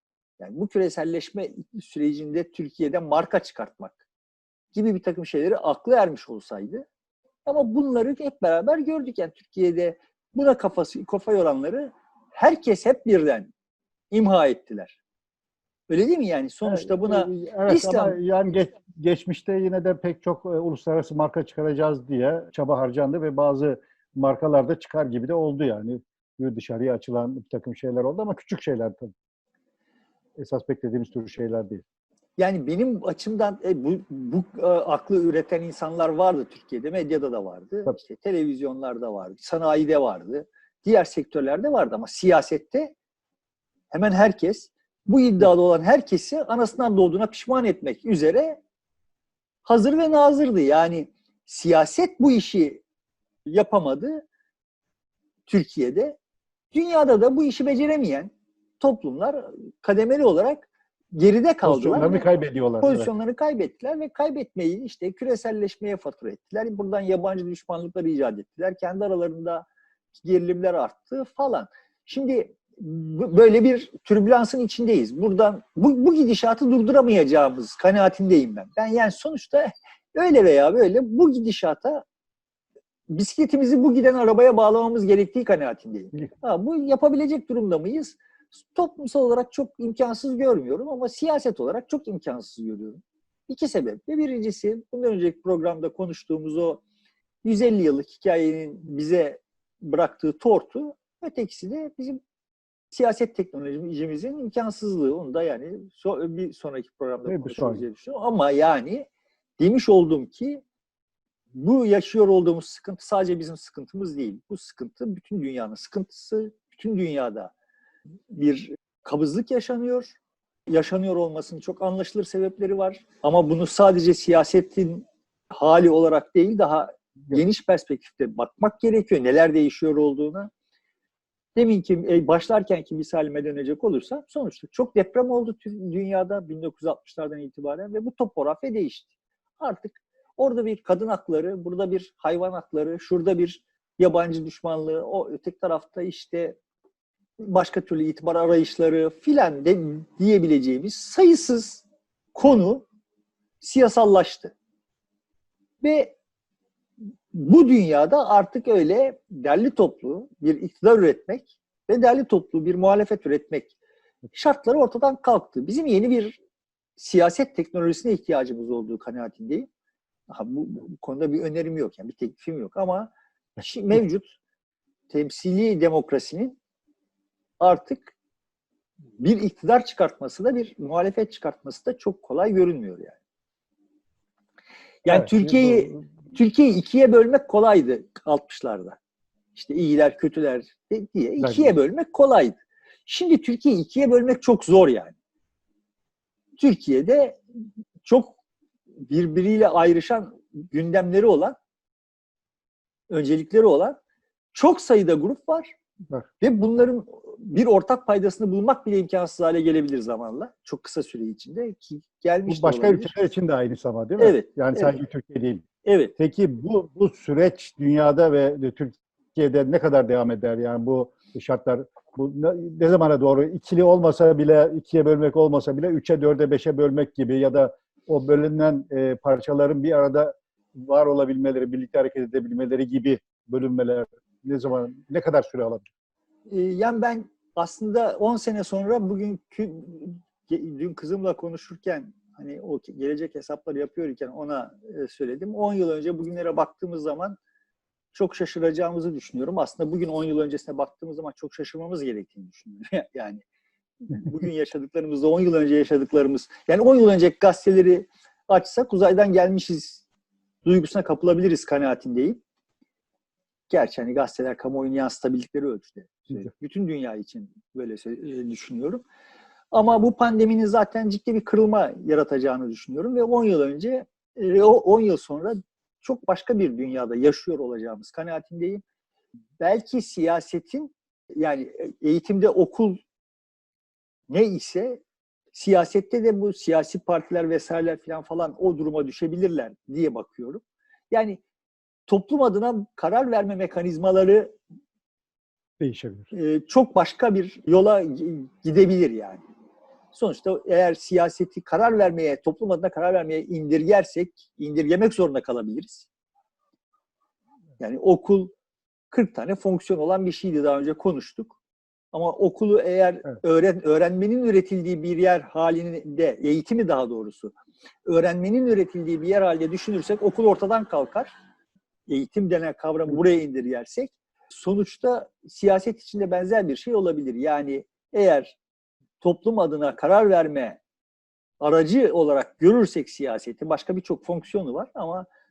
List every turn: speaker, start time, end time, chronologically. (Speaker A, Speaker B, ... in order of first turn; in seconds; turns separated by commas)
Speaker A: 0.4-4.0, Speaker A: 4.7-6.8, Speaker A: 7.5-13.5, Speaker A: 14.1-15.0, Speaker A: 15.9-18.2, Speaker B: 16.6-29.1, Speaker B: 30.4-31.8, Speaker A: 32.4-42.9, Speaker A: 43.9-48.6, Speaker A: 49.6-52.8, Speaker A: 53.5-54.2, Speaker A: 55.5-56.2, Speaker A: 56.7-62.2, Speaker B: 61.6-63.1, Speaker A: 62.8-82.0, Speaker A: 83.1-96.8, Speaker A: 97.4-102.2, Speaker A: 102.9-109.1, Speaker B: 107.2-107.8, Speaker A: 109.6-110.6, Speaker A: 111.5-117.5, Speaker A: 118.3-130.5, Speaker A: 131.6-139.1, Speaker A: 139.6-146.6, Speaker A: 147.4-152.8, Speaker A: 153.6-154.5, Speaker A: 155.8-156.1, Speaker A: 157.3-163.7, Speaker A: 164.3-166.4, Speaker A: 167.0-169.7, Speaker A: 170.3-174.3, Speaker A: 175.1-176.6, Speaker A: 177.6-178.1, Speaker A: 179.2-183.2, Speaker A: 185.0-189.0, Speaker B: 185.1-186.0, Speaker A: 189.5-195.1, Speaker B: 191.4-191.7, Speaker A: 196.6-197.4, Speaker A: 198.0-198.3, Speaker A: 199.1-201.6, Speaker A: 203.1-204.0, Speaker A: 204.5-205.7, Speaker A: 206.4-213.1, Speaker B: 212.5-215.6, Speaker A: 214.2-214.9, Speaker A: 215.8-216.1, Speaker B: 216.2-235.9, Speaker A: 236.5-247.4, Speaker A: 248.1-253.4, Speaker A: 254.1-260.0, Speaker A: 260.6-262.4, Speaker A: 263.7-269.0, Speaker A: 269.7-278.8, Speaker A: 279.6-283.0, Speaker A: 284.3-285.0, Speaker A: 285.5-291.4, Speaker A: 292.1-294.5, Speaker B: 295.8-296.3, Speaker A: 296.3-299.4, Speaker A: 300.1-306.1, Speaker A: 307.8-308.5, Speaker A: 309.1-311.6, Speaker A: 312.1-317.5, Speaker A: 318.1-321.3, Speaker A: 322.1-328.6, Speaker A: 329.2-330.8, Speaker A: 331.6-335.3